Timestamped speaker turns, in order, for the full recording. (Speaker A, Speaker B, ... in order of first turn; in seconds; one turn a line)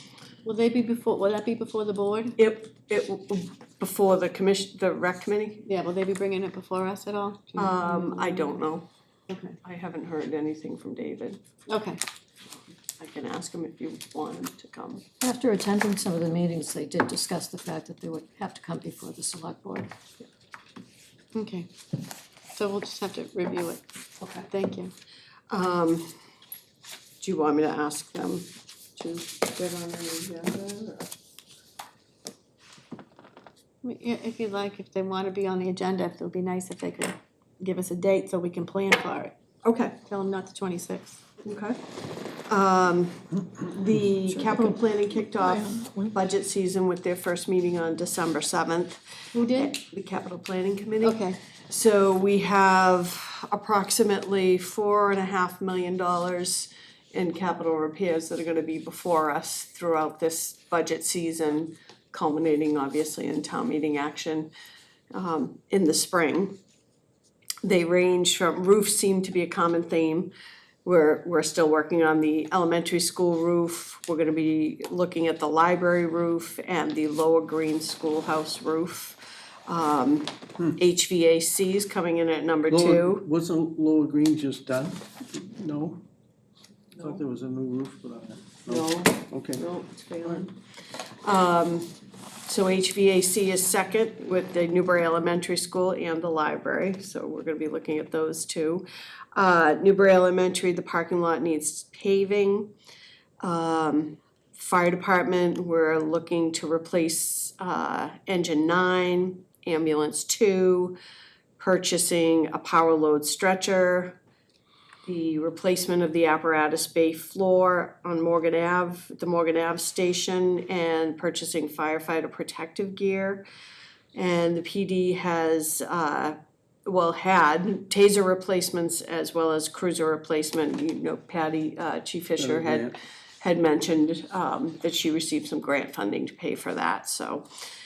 Speaker A: 0.4-2.4
Speaker B: 2.4-5.6
Speaker A: 5.6-8.6
Speaker B: 7.6-8.9
Speaker A: 9.3-9.6
Speaker B: 9.6-11.4
Speaker A: 11.7-12.0
Speaker B: 12.8-15.1
Speaker C: 15.2-19.9
Speaker A: 21.3-21.7
Speaker A: 22.5-24.9
Speaker B: 25.5-26.2
Speaker B: 27.2-31.1
Speaker A: 33.8-39.3
Speaker B: 39.6-40.0
Speaker A: 40.0-41.2
Speaker B: 41.4-41.8
Speaker B: 42.5-49.0
Speaker C: 45.7-46.0
Speaker A: 49.3-49.7
Speaker B: 49.5-64.5
Speaker A: 51.0-51.4
Speaker B: 65.1-66.6
Speaker B: 67.6-70.3
Speaker B: 70.8-83.2
Speaker D: 82.7-86.0
Speaker D: 86.9-89.6
Speaker B: 88.7-90.6
Speaker B: 91.2-91.9
Speaker B: 92.5-102.7
Speaker B: 103.4-111.0
Speaker B: 111.6-114.2
Speaker B: 115.0-123.5
Speaker B: 124.1-137.4
Speaker D: 132.4-132.9